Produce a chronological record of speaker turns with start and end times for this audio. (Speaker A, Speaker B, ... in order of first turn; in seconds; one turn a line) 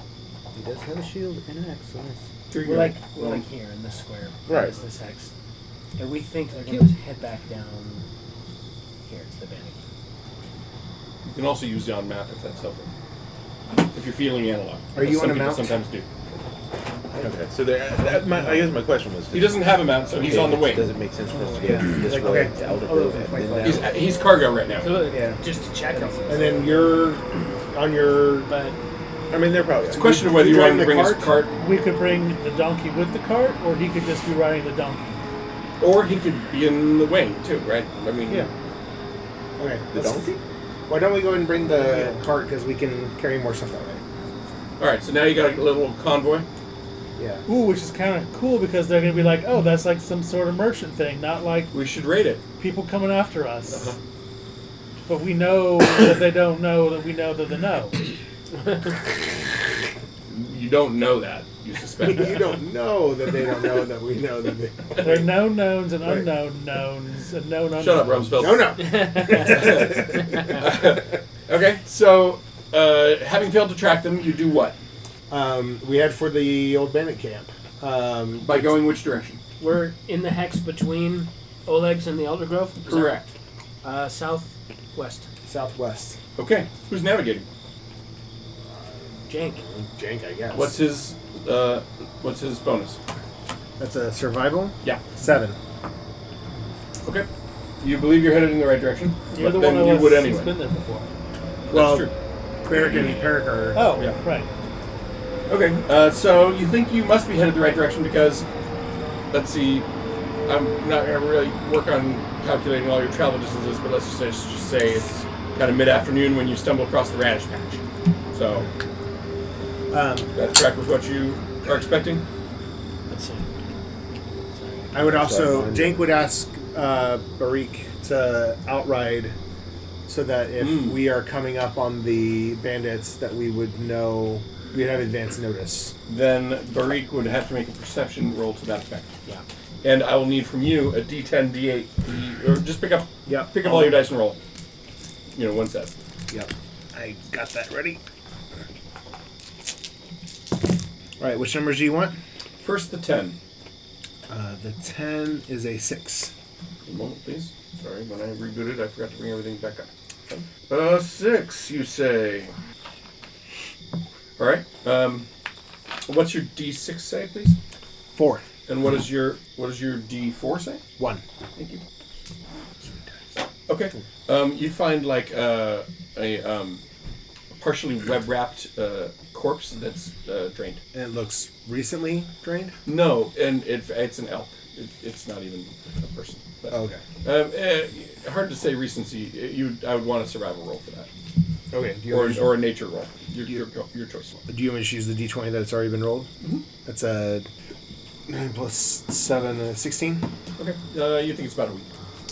Speaker A: 0.5-2.3
Speaker B: 2.5-3.5
Speaker C: 2.6-5.3
Speaker D: 4.5-4.8
Speaker C: 6.0-8.1
Speaker A: 6.6-6.9
Speaker C: 9.0-9.8
Speaker B: 11.2-12.9
Speaker B: 13.7-16.1
Speaker E: 14.9-15.8
Speaker D: 17.1-23.9
Speaker A: 18.2-18.6
Speaker B: 19.3-20.9
Speaker A: 21.3-24.0
Speaker E: 22.1-22.5
Speaker B: 23.6-25.0
Speaker C: 24.8-26.9
Speaker A: 25.0-25.4
Speaker A: 25.9-26.5
Speaker E: 26.3-28.5
Speaker C: 28.5-28.8
Speaker D: 29.3-30.1
Speaker E: 29.9-31.4
Speaker B: 29.9-31.5
Speaker F: 31.5-35.2
Speaker B: 35.8-38.5
Speaker E: 39.6-40.3
Speaker D: 39.9-40.4
Speaker E: 40.9-44.0
Speaker B: 44.8-46.5
Speaker E: 47.2-47.5
Speaker F: 47.5-51.7
Speaker B: 51.7-52.4
Speaker F: 52.6-54.0
Speaker B: 53.7-54.0
Speaker F: 55.1-58.0
Speaker B: 60.3-62.6
Speaker E: 62.0-65.3
Speaker F: 65.0-68.6
Speaker E: 66.0-66.3
Speaker B: 67.8-74.8
Speaker E: 68.4-70.6
Speaker E: 75.3-78.8
Speaker B: 78.4-79.4
Speaker C: 79.6-83.1
Speaker B: 82.8-83.3
Speaker C: 83.8-85.3
Speaker E: 85.5-86.2
Speaker B: 86.4-87.5
Speaker C: 89.3-89.6
Speaker E: 89.7-90.8
Speaker B: 90.5-93.0
Speaker E: 93.8-95.6
Speaker B: 97.8-100.5
Speaker F: 99.3-101.1
Speaker B: 101.7-102.1
Speaker E: 101.7-102.1
Speaker E: 102.6-103.9
Speaker B: 102.7-103.3
Speaker F: 103.7-104.5
Speaker B: 105.5-108.5
Speaker B: 109.3-109.8
Speaker B: 110.5-118.7
Speaker E: 119.9-120.3
Speaker B: 120.3-122.2
Speaker C: 123.1-123.5
Speaker C: 124.5-125.0
Speaker E: 124.9-129.3
Speaker D: 125.0-126.1
Speaker E: 130.1-135.9
Speaker B: 130.6-131.0
Speaker B: 136.1-139.1
Speaker B: 139.8-144.4
Speaker E: 143.2-144.1
Speaker B: 145.3-145.9
Speaker E: 146.3-148.0
Speaker E: 151.2-152.2
Speaker B: 152.6-153.4
Speaker E: 154.3-156.3
Speaker B: 156.8-162.5
Speaker B: 164.4-165.3
Speaker B: 166.1-167.6
Speaker E: 168.1-168.4
Speaker B: 168.7-170.8
Speaker E: 171.0-171.2
Speaker B: 171.6-171.8
Speaker B: 173.7-176.8
Speaker B: 177.5-180.8
Speaker E: 180.9-182.8
Speaker B: 182.8-191.1
Speaker E: 186.7-187.0
Speaker E: 191.7-192.6
Speaker B: 192.1-194.4
Speaker E: 194.5-196.3
Speaker B: 196.4-196.7
Speaker E: 196.8-197.5
Speaker E: 198.3-200.2
Speaker B: 200.6-201.9